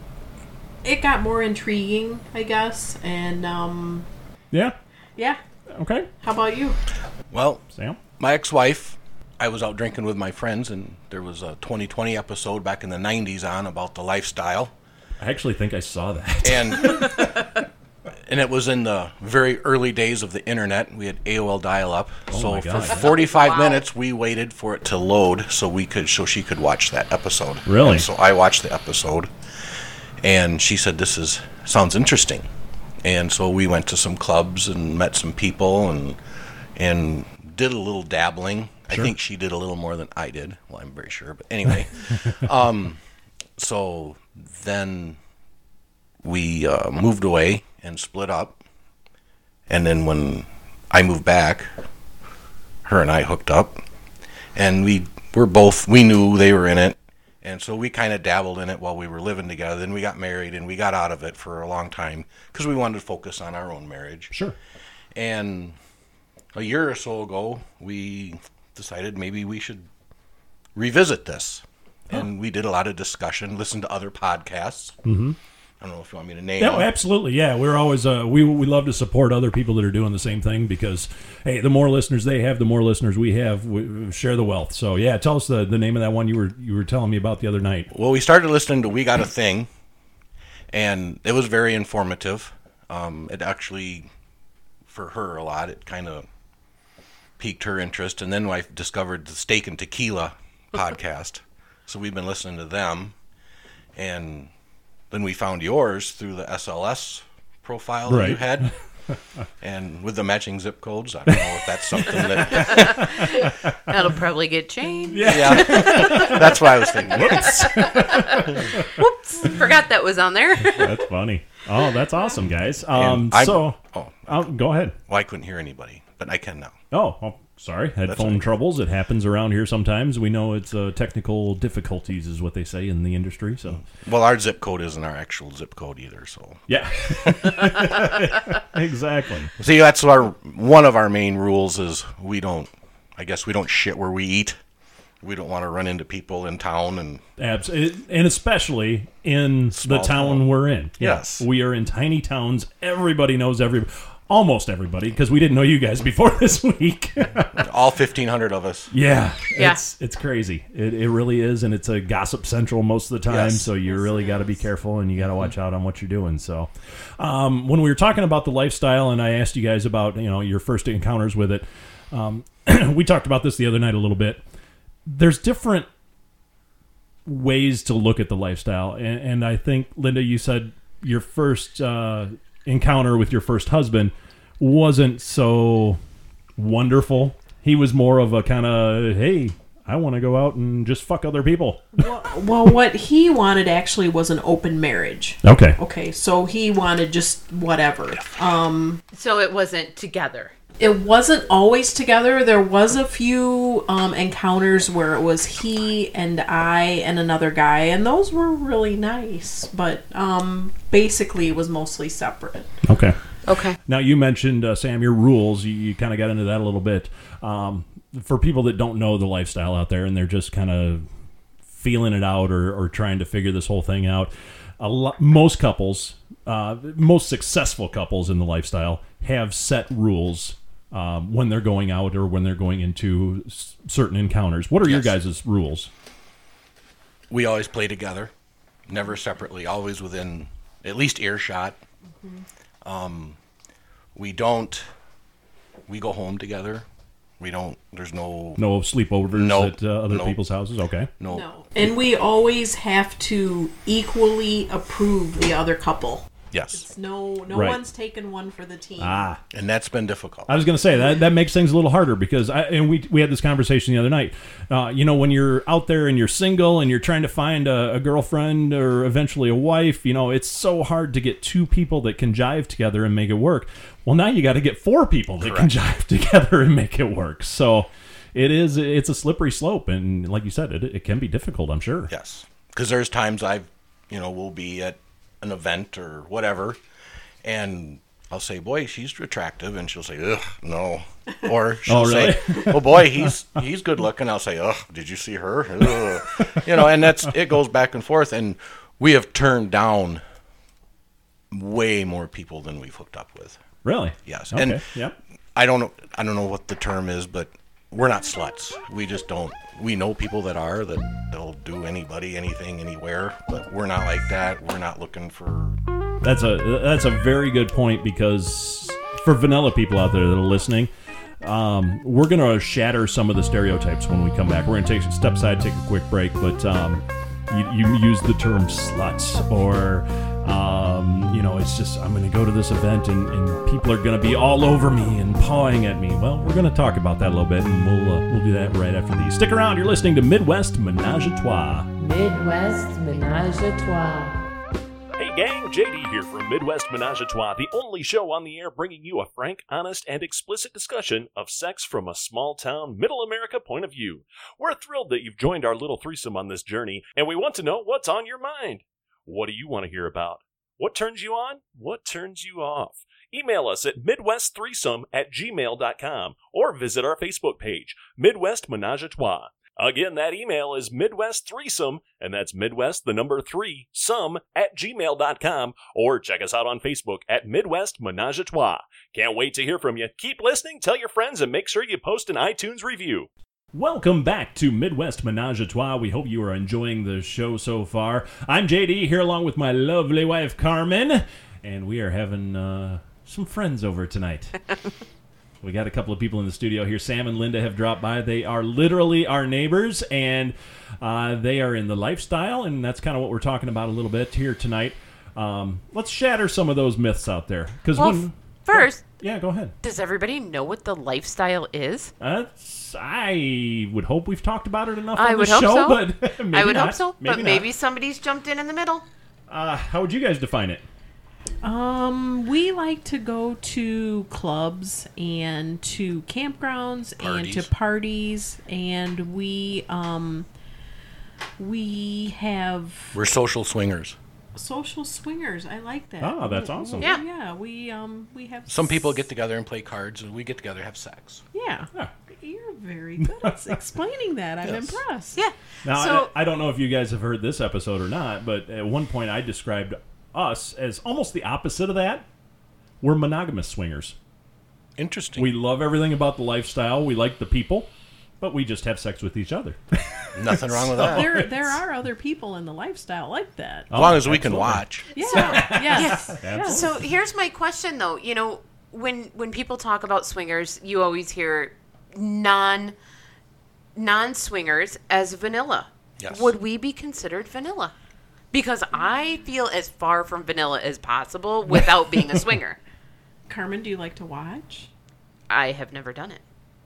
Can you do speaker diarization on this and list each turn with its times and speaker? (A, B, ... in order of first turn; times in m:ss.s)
0:00.8-0:04.0 A
0:05.7-0:06.1 B
0:06.2-0:06.8 A
0:07.3-0:07.6 C
0:07.7-0:08.0 B
0:08.2-0:14.7 C
0:15.2-0:17.4 B
0:16.4-0:17.2 C
0:18.2-0:29.3 C
0:22.3-0:23.0 B
0:22.8-0:23.8 D
0:27.7-0:28.1 B
0:30.2-0:32.5 C
0:33.0-0:36.2 C
0:36.8-0:43.0 C
0:43.6-0:45.2 C
0:46.2-0:48.6 C
0:49.7-0:51.7 C
0:52.8-0:53.8 C
0:54.5-1:04.3 C
1:04.3-1:04.6 B
1:05.1-1:05.8 C
1:06.5-1:09.9 C
1:10.7-1:15.0 C
1:15.0-1:15.4 B
1:15.8-1:16.9 C
1:16.6-1:27.9 B
1:27.9-1:29.7 C
1:30.7-1:34.1 C
1:34.9-1:36.3 C
1:37.4-1:43.1 C
1:43.9-1:44.5 C
1:45.1-1:48.7 C
1:48.1-1:48.7 B
1:49.6-1:53.2 C
1:52.0-1:53.5 B
1:52.5-1:56.5 D
1:55.1-1:58.8 B
1:55.2-1:57.8 C
1:57.8-2:00.9 D
2:00.6-2:05.0 B
2:02.9-2:04.5 C
2:05.1-2:06.8 C
2:06.9-2:13.8 B
2:08.0-2:08.5 C
2:13.7-2:18.0 C
2:16.7-2:19.5 B
2:19.6-2:24.6 C
2:25.2-2:27.2 C
2:27.4-2:37.6 B
2:29.7-2:31.4 C
2:37.5-2:38.9 C
2:38.9-2:54.4 B
2:43.3-2:43.7 C
2:43.9-2:44.6 A
2:55.0-2:55.9 B
2:57.2-3:06.0 B
3:06.6-3:11.8 B
3:12.0-3:19.0 A
3:15.4-3:15.8 B
3:19.1-3:20.5 D
3:20.8-3:32.7 A
3:32.8-3:33.2 B
3:33.4-3:33.8 D
3:33.8-3:41.0 B
3:41.7-3:55.9 B
3:54.8-3:55.2 C
3:57.3-3:58.3 C
3:58.9-4:01.8 C
4:02.8-4:03.4 C
4:04.1-4:04.8 C
4:05.9-4:06.8 C
4:07.4-4:08.6 C
4:08.6-4:11.1 B
4:09.3-4:10.4 C
4:11.2-4:11.4 C
4:11.3-4:19.2 A
4:16.5-4:16.8 C
4:17.5-4:17.8 B
4:19.0-4:19.4 B
4:19.5-4:20.6 C
4:20.5-4:42.1 B
4:35.4-4:35.7 C
4:42.1-4:46.8 C
4:47.4-5:00.2 C
4:51.8-4:53.3 B
5:01.5-5:03.6 C
5:03.8-5:05.2 B
5:04.2-5:04.8 C
5:05.5-5:15.8 C
5:16.2-5:20.9 B
5:21.4-5:41.9 B
5:42.0-5:44.4 E
5:45.2-6:34.6 B
6:35.6-6:49.7 B
6:47.9-6:49.0 D
6:49.8-6:52.1 D
6:52.2-6:57.7 B
6:55.1-6:59.0 D
6:59.5-7:00.8 B
7:01.6-7:10.5 A
7:07.2-7:07.7 C
7:11.6-7:13.1 A
7:13.1-7:14.2 C
7:14.5-7:19.2 A
7:16.2-7:17.1 B
7:18.7-7:21.4 C
7:21.5-7:25.4 A
7:23.2-7:23.8 B
7:24.6-7:25.0 C
7:25.3-7:26.3 D
7:25.8-7:32.2 B
7:33.0-7:34.2 B
7:35.0-7:35.5 C
7:35.4-7:41.5 B
7:40.3-7:41.5 C
7:41.0-7:43.9 A
7:43.9-7:47.0 B
7:43.9-7:45.1 C
7:45.1-7:46.8 A
7:45.2-7:52.9 D
7:53.9-7:57.9 D
7:56.2-7:56.5 C
7:58.5-8:02.8 D
8:03.5-8:04.9 A
8:05.5-8:06.4 D